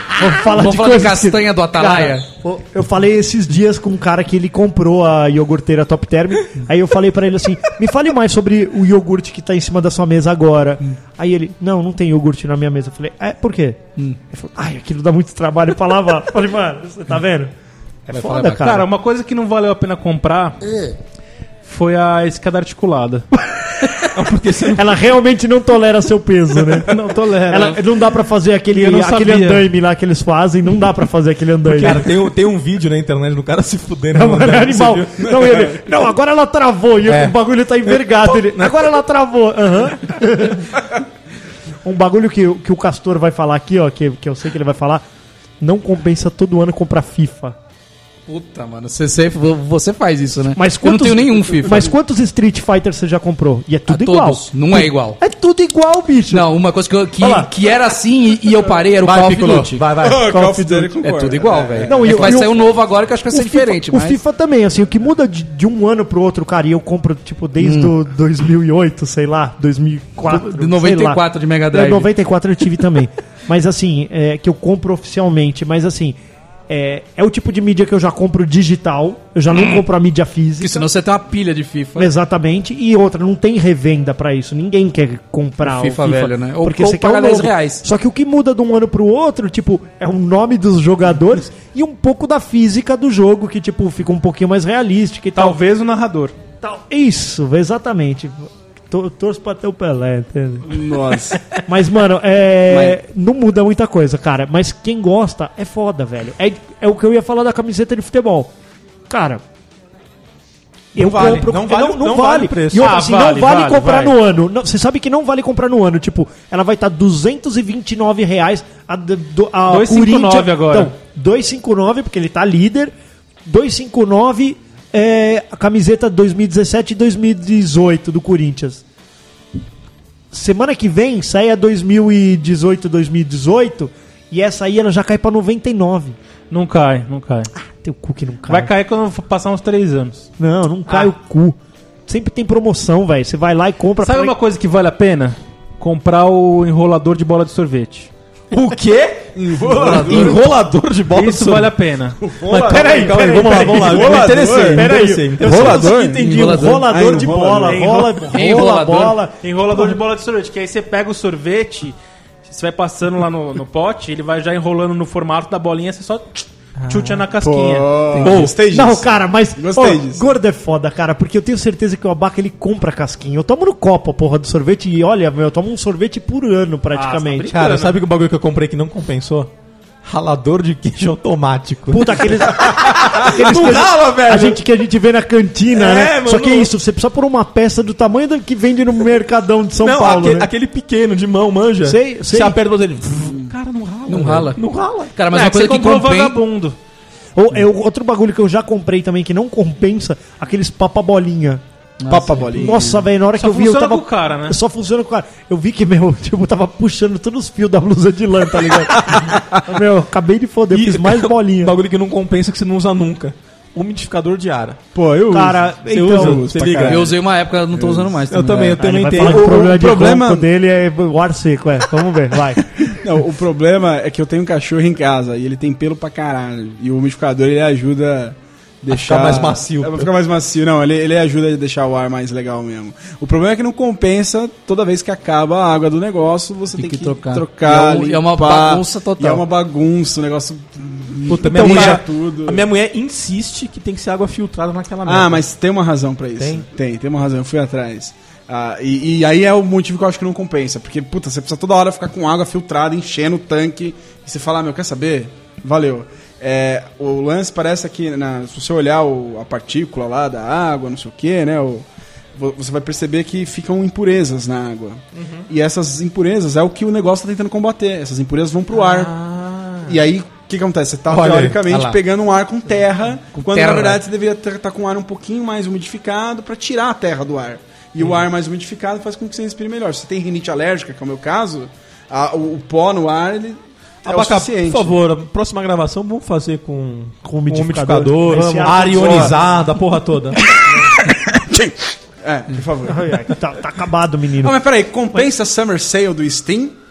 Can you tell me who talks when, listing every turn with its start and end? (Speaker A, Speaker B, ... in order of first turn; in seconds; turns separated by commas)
Speaker A: 0.1-17.5, Speaker B: 0.4-2.2, Speaker A: 18.1-18.9, Speaker B: 18.1-18.8, Speaker C: 18.5-20.6, Speaker C: 21.6-23.2, Speaker D: 24.1-25.0, Speaker A: 24.8-26.9, Speaker C: 26.9-27.8, Speaker A: 27.5-32.0, Speaker C: 28.7-29.7, Speaker D: 31.6-35.6, Speaker A: 34.1-40.8, Speaker D: 37.0-38.9, Speaker A: 41.8-45.0, Speaker A: 45.6-47.6, Speaker B: 48.3-51.9, Speaker A: 50.5-56.4, Speaker B: 53.9-55.2, Speaker B: 56.3-60.1, Speaker A: 57.2-57.5, Speaker D: 59.0-60.2, Speaker E: 59.9-62.3, Speaker A: 60.3-60.9, Speaker B: 61.0-64.2, Speaker A: 61.8-62.6, Speaker A: 63.3-76.2, Speaker B: 67.6-67.9, Speaker B: 70.2-72.1, Speaker A: 76.7-80.8, Speaker B: 79.5-79.8, Speaker B: 80.6-82.1, Speaker A: 82.0-95.6, Speaker B: 85.6-87.8, Speaker C: 95.3-96.3, Speaker A: 96.6-100.7, Speaker E: 100.6-101.6, Speaker A: 101.6-108.5, Speaker E: 102.7-103.0, Speaker A: 109.1-109.4, Speaker D: 110.9-112.9, Speaker A: 110.9-122.9, Speaker C: 112.8-114.1, Speaker C: 119.7-120.9, Speaker A: 123.5-128.8, Speaker A: 130.3-136.2, Speaker C: 136.5-137.5, Speaker A: 137.5-138.7, Speaker C: 138.4-140.3, Speaker A: 140.4-144.3, Speaker C: 144.0-148.1, Speaker D: 148.5-151.8, Speaker E: 149.3-150.4, Speaker B: 149.7-150.4, Speaker C: 151.1-154.7, Speaker E: 152.2-154.8, Speaker D: 152.3-157.8, Speaker A: 153.2-154.2, Speaker A: 154.7-160.0, Speaker E: 155.4-157.8, Speaker B: 156.2-156.9, Speaker C: 157.6-158.3, Speaker B: 158.3-159.2, Speaker C: 159.4-168.4, Speaker D: 166.8-167.2, Speaker E: 167.4-170.2, Speaker D: 168.2-168.5, Speaker A: 168.7-177.5, Speaker C: 176.9-178.0, Speaker D: 177.5-179.5, Speaker D: 180.0-184.6, Speaker A: 181.9-190.5, Speaker D: 185.7-186.7, Speaker D: 189.8-195.1, Speaker A: 191.8-192.6, Speaker B: 194.1-196.4, Speaker C: 195.3-196.8, Speaker A: 197.3-201.6, Speaker B: 202.0-202.8, Speaker E: 202.1-203.1, Speaker A: 202.6-211.7, Speaker C: 203.3-204.6, Speaker D: 210.7-214.8, Speaker E: 214.9-217.2, Speaker A: 215.3-216.5, Speaker D: 215.9-217.1, Speaker B: 216.8-218.8, Speaker E: 217.7-218.2, Speaker D: 218.3-219.7, Speaker A: 218.8-222.8, Speaker E: 219.2-220.5, Speaker E: 222.8-242.6, Speaker D: 228.9-230.1, Speaker B: 236.8-239.4, Speaker D: 241.3-245.4, Speaker B: 241.6-241.9, Speaker E: 245.1-269.1, Speaker D: 246.4-246.7, Speaker D: 265.1-265.4, Speaker D: 268.7-270.0, Speaker E: 269.8-284.9, Speaker D: 271.1-271.6, Speaker B: 271.6-272.0, Speaker B: 273.3-274.0, Speaker D: 284.0-290.4, Speaker A: 287.2-289.4, Speaker E: 288.4-289.3, Speaker E: 290.8-293.1, Speaker A: 292.9-294.6, Speaker E: 294.4-296.8